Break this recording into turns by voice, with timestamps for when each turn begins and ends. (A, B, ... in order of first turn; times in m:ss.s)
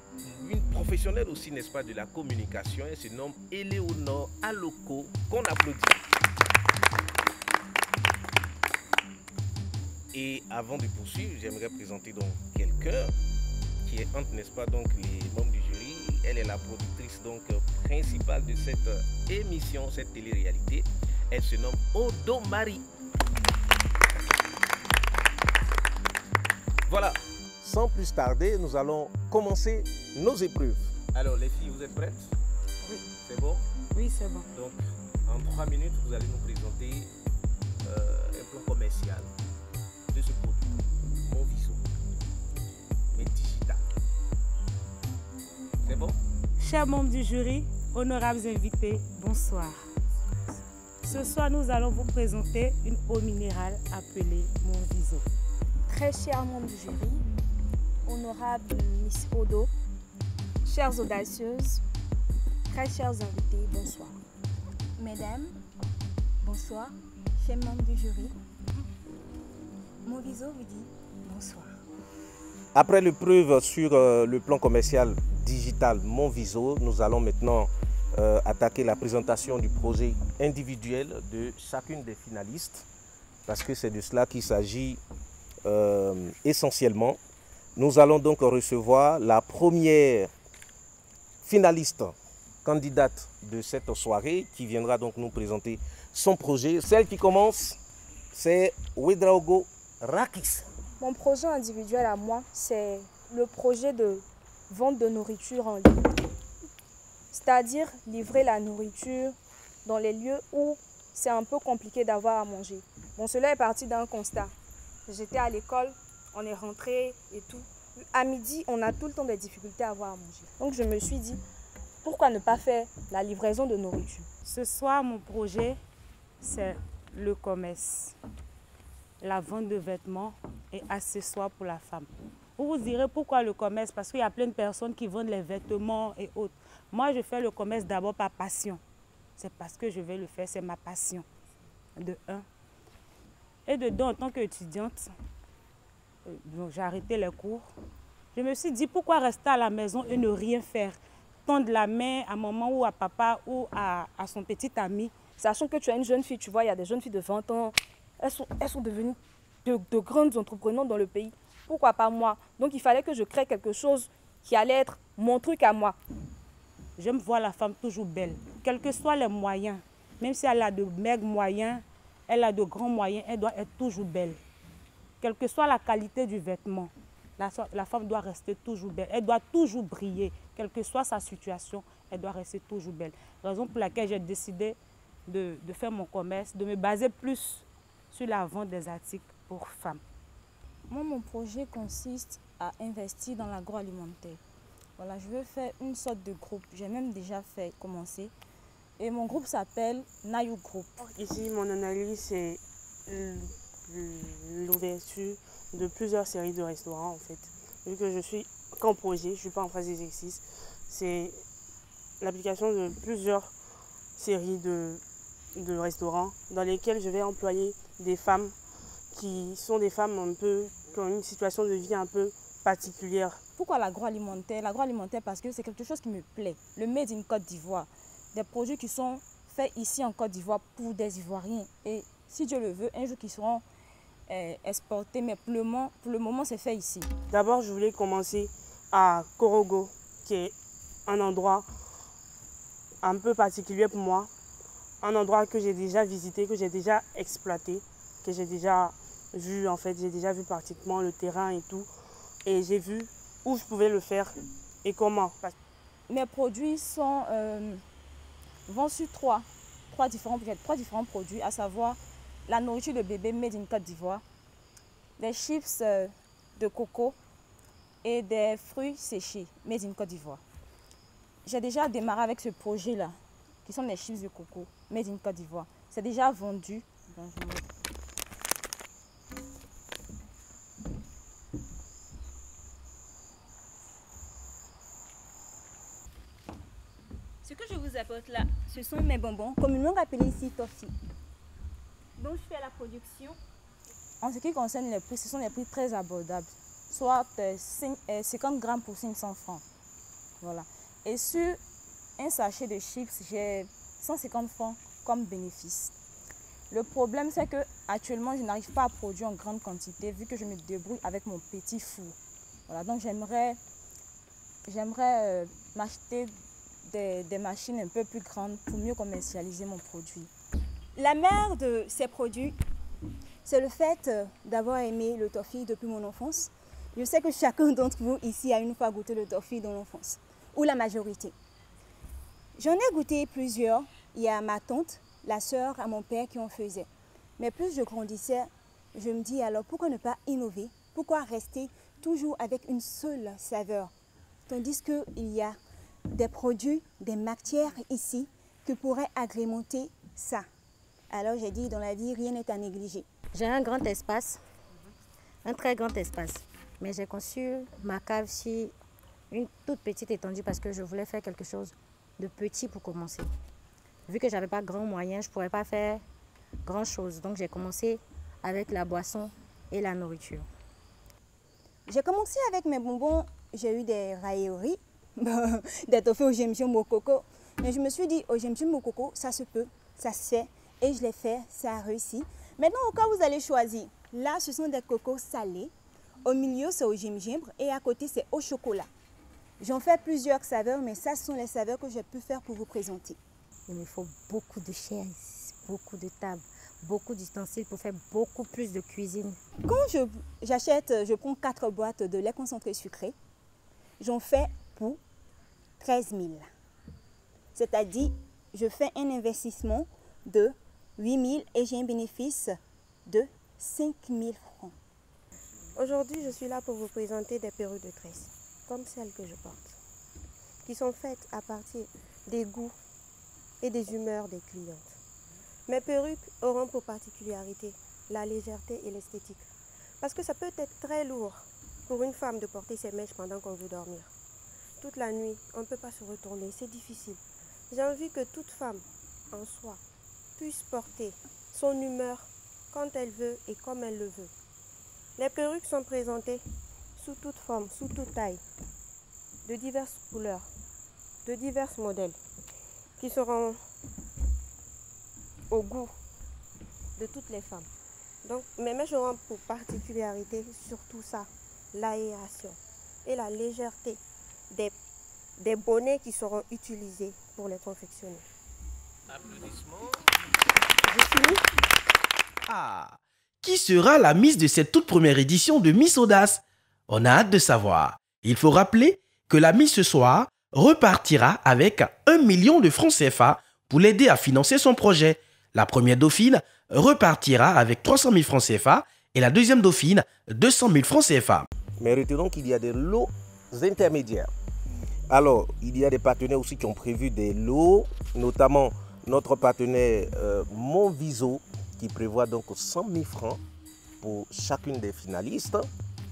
0:00.2-0:06.1 A
0:10.1-0:13.1 A
0:13.8-0:22.8 A
0:26.9-0:32.4 A
0:33.2-0:33.7 A
0:34.5-0:37.1 A
0:37.8-0:39.3 A
0:40.1-0:41.8 A
0:43.1-0:43.8 A
0:45.8-0:46.2 A
0:46.6-0:49.8 B
0:51.0-0:55.2 B
0:55.9-0:57.2 C
0:58.0-0:59.7 C
1:00.6-1:01.8 C
1:02.7-1:04.2 C
1:05.0-1:05.6 D
1:06.4-1:08.4 D
1:10.0-1:11.7 D
1:12.7-1:22.9 A
1:23.5-1:25.0 A
1:25.7-1:27.2 A
1:27.8-1:30.3 A
1:31.4-1:37.8 A
1:38.3-1:40.7 A
1:41.0-1:46.0 C
1:47.3-1:54.5 C
1:55.1-2:01.4 C
2:02.0-2:04.3 C
2:04.4-2:05.8 B
2:06.4-2:08.2 B
2:09.2-2:18.8 B
2:19.4-2:21.3 B
2:22.0-2:22.4 B
2:23.7-2:25.1 B
2:26.3-2:27.7 B
2:28.4-2:35.1 B
2:35.4-2:46.0 C
2:47.0-2:54.4 B
2:55.2-3:10.0 B
3:10.9-3:14.4 E
3:15.0-3:18.3 E
3:19.0-3:21.0 E
3:21.2-3:31.4 F
3:32.2-3:33.5 F
3:34.2-3:35.0 F
3:35.6-3:38.5 F
3:39.1-3:43.4 F
3:43.6-3:53.6 E
3:54.3-3:57.1 E
3:57.3-4:00.5 F
4:01.1-4:01.6 F
4:03.0-4:04.3 F
4:05.0-4:11.9 F
4:12.4-4:14.3 F
4:14.8-4:15.5 F
4:16.1-4:17.8 E
4:18.7-4:24.2 E
4:25.2-4:27.2 E
4:28.0-4:30.4 E
4:31.4-4:37.6 E
4:47.4-4:50.9 D
4:52.2-4:53.4 D
4:54.2-4:59.6 E
5:00.4-5:01.6 E
5:02.2-5:05.9 E
5:06.7-5:12.2 E
5:12.7-5:13.6 E
5:14.7-5:16.3 E
5:16.9-5:20.3 E
5:21.0-5:22.6 D
5:23.4-5:31.4 D
5:32.6-5:43.9 D
5:44.5-5:45.6 D
5:46.1-5:50.5 D
5:51.1-5:53.1 D
5:53.4-5:54.4 G
5:55.4-5:58.7 G
5:59.3-6:03.3 G
6:04.1-6:06.0 G
6:06.6-6:10.5 G
6:11.9-6:25.7 D
6:26.2-6:28.9 D
6:29.6-6:33.2 D
6:33.7-6:39.4 G
6:39.6-6:43.2 D
6:44.0-6:45.0 D
6:45.8-6:46.5 D
6:47.6-6:52.6 D
6:53.1-6:54.8 D
6:55.8-6:59.8 H
7:00.6-7:02.8 H
7:03.6-7:05.0 H
7:05.7-7:09.5 H
7:10.0-7:14.1 H
7:14.8-7:19.8 H
7:20.4-7:24.3 H
7:25.2-7:26.4 H
7:27.0-7:28.4 H
7:29.5-7:30.5 H
7:31.2-7:32.2 H
7:33.0-7:33.6 H
7:35.5-7:35.9 H
7:37.0-7:37.7 H
7:38.2-7:44.8 H
7:45.4-7:48.2 H
7:50.8-7:51.4 H
7:52.5-8:11.5 I
8:11.8-8:14.3 A
8:15.1-8:23.4 A
8:24.0-8:25.7 A